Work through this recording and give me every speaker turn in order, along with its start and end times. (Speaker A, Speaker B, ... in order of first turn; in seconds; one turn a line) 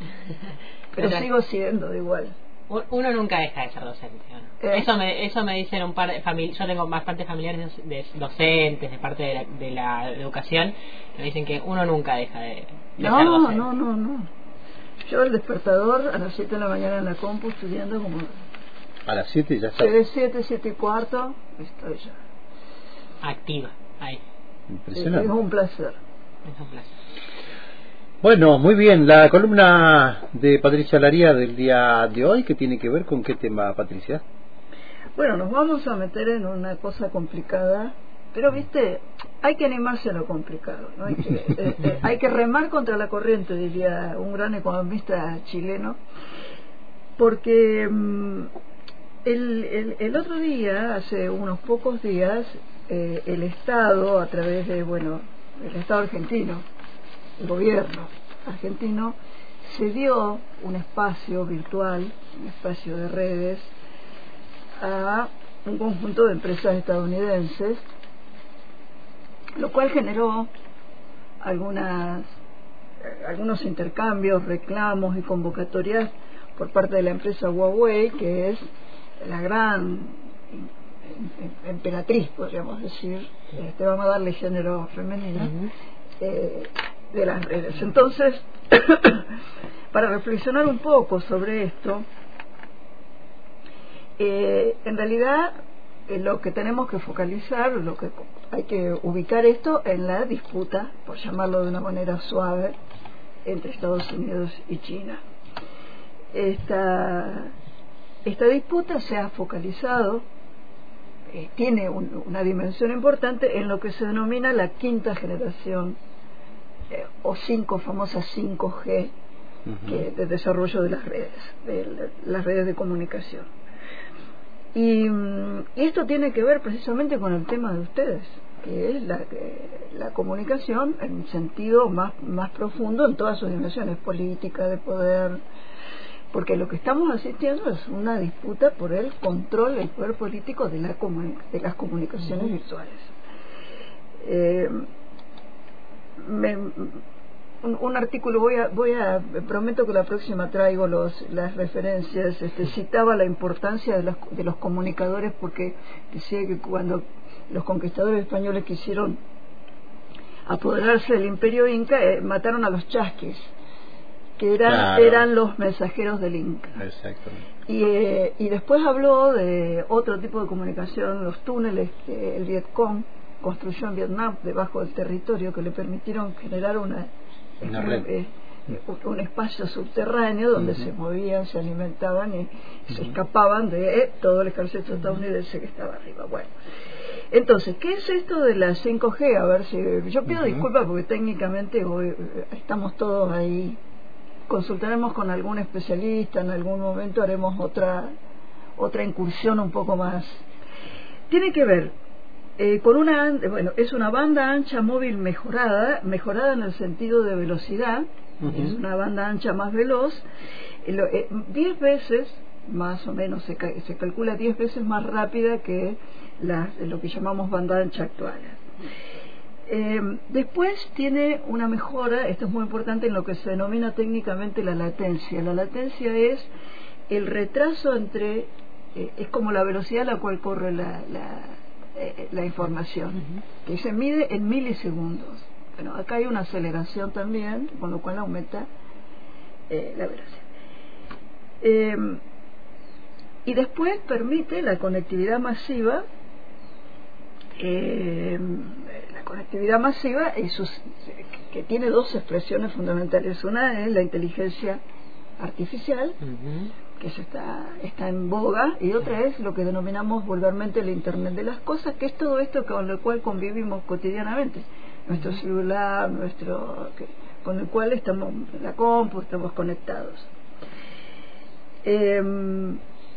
Speaker A: 0.9-2.3
Speaker B: 1.0-1.2
Speaker B: 2.7-13.7
Speaker A: 13.0-14.3
Speaker A: 15.1-18.3
Speaker C: 19.1-19.9
Speaker A: 19.8-22.1
Speaker B: 23.2-24.2
Speaker C: 24.7-25.3
Speaker A: 24.9-26.0
Speaker B: 26.4-26.9
Speaker C: 28.2-34.2
Speaker A: 35.2-46.0
Speaker A: 47.2-48.5
Speaker A: 49.2-56.6
Speaker A: 57.4-63.7
Speaker A: 64.8-67.8
Speaker A: 69.6-70.5
Speaker A: 71.4-72.2
Speaker A: 73.0-78.6
Speaker A: 79.2-85.6
Speaker B: 85.4-85.7
Speaker A: 86.2-89.4
Speaker A: 89.9-92.0
Speaker A: 94.2-95.6
Speaker A: 96.1-102.8
Speaker A: 103.4-105.2
Speaker A: 106.3-107.5
Speaker A: 108.2-110.2
Speaker A: 111.3-116.0
Speaker A: 116.9-119.1
Speaker A: 119.8-123.5
Speaker A: 124.7-135.4
Speaker A: 136.3-143.1
Speaker A: 144.2-144.9
Speaker A: 146.2-147.0
Speaker A: 147.6-159.2
Speaker A: 160.4-163.5
Speaker A: 164.4-166.8
Speaker C: 164.6-165.2
Speaker C: 166.8-167.4
Speaker A: 167.7-177.1
Speaker A: 177.6-186.5
Speaker C: 177.6-178.0
Speaker A: 187.3-193.8
Speaker A: 194.5-198.1
Speaker A: 198.8-200.4
Speaker A: 201.3-201.9
Speaker A: 202.6-210.2
Speaker A: 210.8-218.6
Speaker A: 219.7-226.5
Speaker A: 227.1-238.7
Speaker A: 239.7-240.4
Speaker A: 241.6-242.2
Speaker A: 243.4-246.0
Speaker A: 247.6-254.8
Speaker A: 255.4-256.2
Speaker B: 256.2-256.7
Speaker A: 257.0-270.3
Speaker A: 271.8-272.8